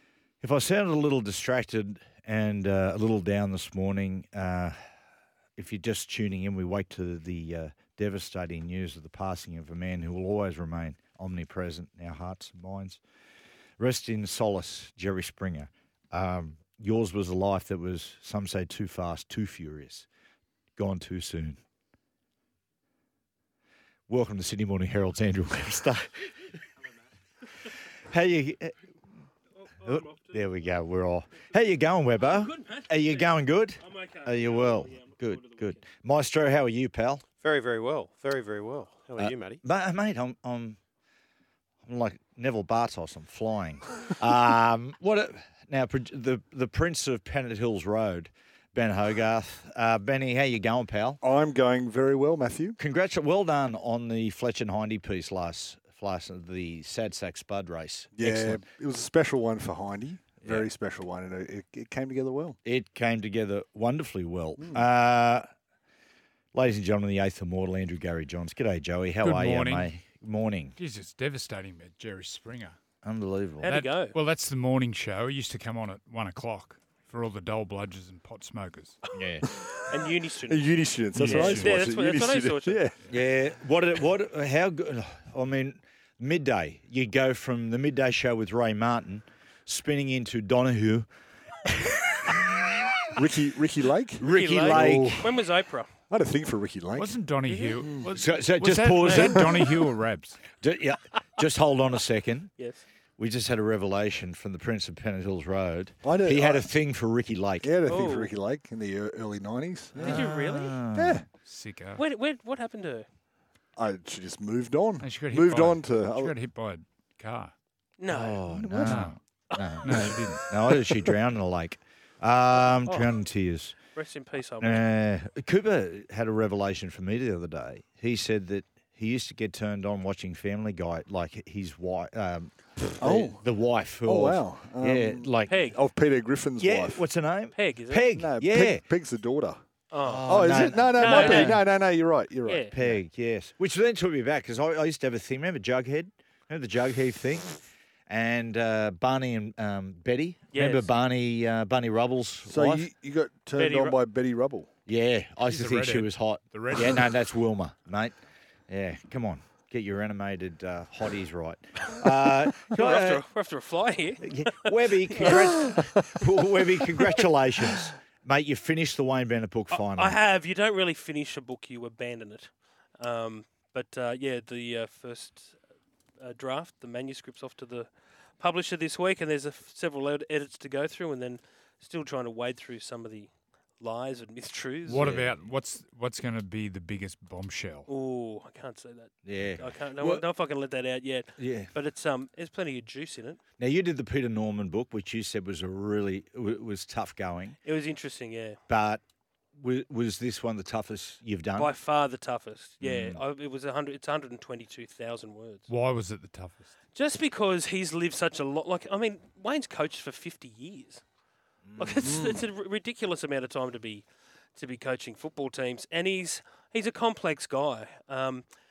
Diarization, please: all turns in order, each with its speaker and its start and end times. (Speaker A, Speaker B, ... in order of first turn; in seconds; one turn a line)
Speaker A: 0.4-4.8
Speaker A: 5.6-13.0
Speaker A: 13.8-20.1
Speaker A: 20.8-21.6
Speaker A: 24.1-26.5
Speaker A: 28.0-28.8
Speaker B: 29.8-30.3
Speaker A: 29.8-37.2
Speaker B: 32.6-33.3
Speaker B: 33.8-35.8
Speaker C: 37.4-39.6
Speaker A: 39.1-40.8
Speaker A: 41.8-51.2
Speaker D: 51.2-52.8
Speaker A: 52.8-58.6
Speaker D: 58.1-62.6
Speaker A: 60.4-60.7
Speaker A: 62.6-65.5
Speaker D: 64.6-64.8
Speaker A: 66.5-70.8
Speaker E: 69.2-69.9
Speaker E: 70.8-72.8
Speaker A: 73.0-73.7
Speaker B: 73.6-74.1
Speaker E: 73.6-79.0
Speaker A: 79.1-79.4
Speaker D: 79.4-79.8
Speaker B: 79.9-80.7
Speaker D: 80.4-82.9
Speaker E: 81.1-81.8
Speaker B: 81.2-82.8
Speaker A: 83.1-91.1
Speaker A: 92.2-92.8
Speaker D: 93.2-95.3
Speaker A: 94.2-95.3
Speaker B: 94.3-95.9
Speaker D: 96.1-97.2
Speaker E: 96.9-100.4
Speaker B: 97.5-97.9
Speaker A: 98.1-99.5
Speaker B: 99.1-99.3
Speaker A: 100.6-102.6
Speaker B: 102.5-102.8
Speaker A: 103.2-107.7
Speaker D: 106.0-106.7
Speaker D: 107.6-110.3
Speaker B: 107.8-108.3
Speaker A: 110.0-111.2
Speaker B: 110.0-110.8
Speaker D: 110.9-111.2
Speaker E: 111.4-112.0
Speaker B: 112.0-113.1
Speaker D: 113.8-116.4
Speaker E: 115.0-117.5
Speaker B: 118.0-118.5
Speaker A: 118.1-123.8
Speaker D: 118.5-119.1
Speaker E: 118.8-119.2
Speaker B: 119.5-120.2
Speaker E: 119.8-120.5
Speaker B: 122.8-123.1
Speaker B: 123.9-124.9
Speaker A: 124.6-135.6
Speaker D: 133.0-137.1
Speaker B: 135.5-135.8
Speaker A: 136.6-138.8
Speaker B: 137.5-138.1
Speaker D: 138.1-139.6
Speaker B: 139.9-141.6
Speaker A: 140.0-141.6
Speaker D: 140.3-143.0
Speaker B: 142.4-142.7
Speaker A: 142.7-152.9
Speaker B: 150.5-150.9
Speaker D: 152.4-154.7
Speaker B: 153.6-153.9
Speaker A: 154.8-158.1
Speaker E: 155.5-157.1
Speaker A: 158.7-163.2
Speaker B: 162.7-166.2
Speaker A: 164.2-170.2
Speaker B: 169.7-175.6
Speaker B: 176.2-185.1
Speaker E: 184.8-187.9
Speaker A: 185.0-185.5
Speaker B: 187.9-193.4
Speaker A: 189.2-190.2
Speaker A: 191.4-191.7
Speaker A: 193.6-197.6
Speaker B: 197.6-198.6
Speaker A: 198.7-199.0
Speaker A: 199.5-201.8
Speaker B: 201.6-205.7
Speaker A: 202.8-203.2
Speaker E: 205.7-206.7
Speaker B: 206.9-211.0
Speaker A: 211.6-212.1
Speaker B: 211.8-218.5
Speaker D: 212.0-212.4